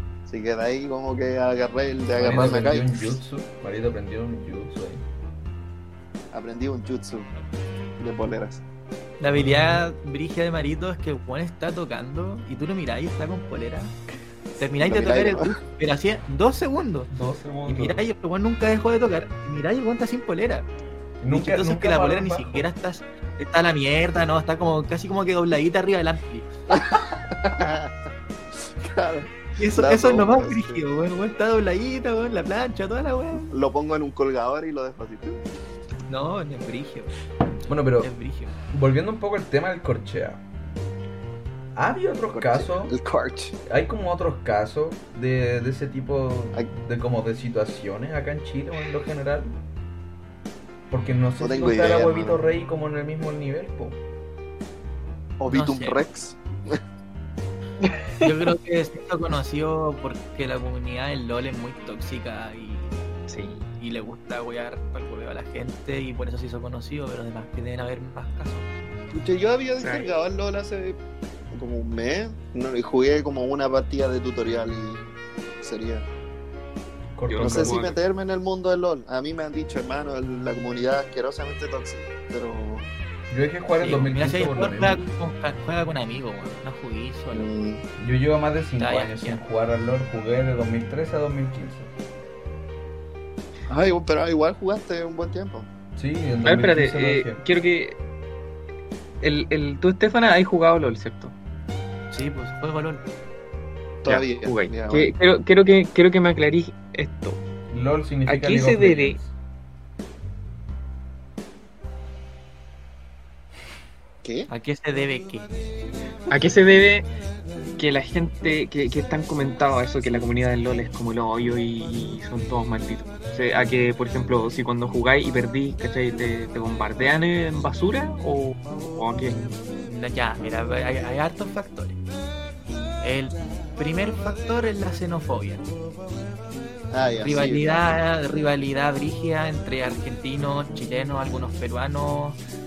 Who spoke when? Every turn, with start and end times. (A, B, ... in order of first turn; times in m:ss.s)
0:00.3-0:02.9 A
0:02.2-0:05.0 B
0:06.3-0:07.3 A
0:08.0-0:08.6 A
0:09.2-0:13.9 C
0:09.3-0:09.8 B
0:14.6-0:17.1 C
0:14.8-0:15.6 A
0:17.1-0:18.0 B
0:17.6-0:20.7 C
0:21.2-0:22.7 B
0:21.3-0:26.5 C
0:26.7-0:28.1 A
0:28.8-0:30.8 A
0:29.6-0:33.5 C
0:33.5-0:35.4 A
0:36.1-0:37.2 C
0:37.7-0:38.1 B
0:38.0-0:38.6 C
0:38.7-0:40.4 B
0:41.8-0:42.9 B
0:42.3-0:43.6 A
0:43.7-0:49.6 B
0:50.9-0:54.0 B
0:51.4-0:52.4 A
0:55.4-0:56.8 A
0:55.5-0:56.0 C
0:58.2-1:02.9 C
1:03.3-1:03.6 D
1:03.7-1:08.7 C
1:09.1-1:11.0 A
1:09.8-1:10.1 D
1:11.5-1:16.1 A
1:17.2-1:17.8 B
1:17.3-1:18.0 D
1:17.4-1:22.9 A
1:23.3-1:25.0 B
1:23.8-1:27.5 C
1:27.3-1:27.8 A
1:28.0-1:31.9 B
1:28.8-1:29.4 C
1:33.7-1:35.7 A
1:36.0-1:37.4 B
1:36.4-1:38.0 D
1:39.2-1:41.3 D
1:42.1-1:43.0 C
1:44.0-1:45.1 A
1:44.0-1:47.4 D
1:47.7-1:49.3 B
1:48.3-1:49.2 D
1:54.2-1:54.5 A
1:54.5-1:55.5 C
1:56.3-1:57.1 D
1:57.8-2:09.6 D
2:09.8-2:12.0 C
2:13.0-2:15.7 C
2:16.9-2:18.0 A
2:17.2-2:22.4 C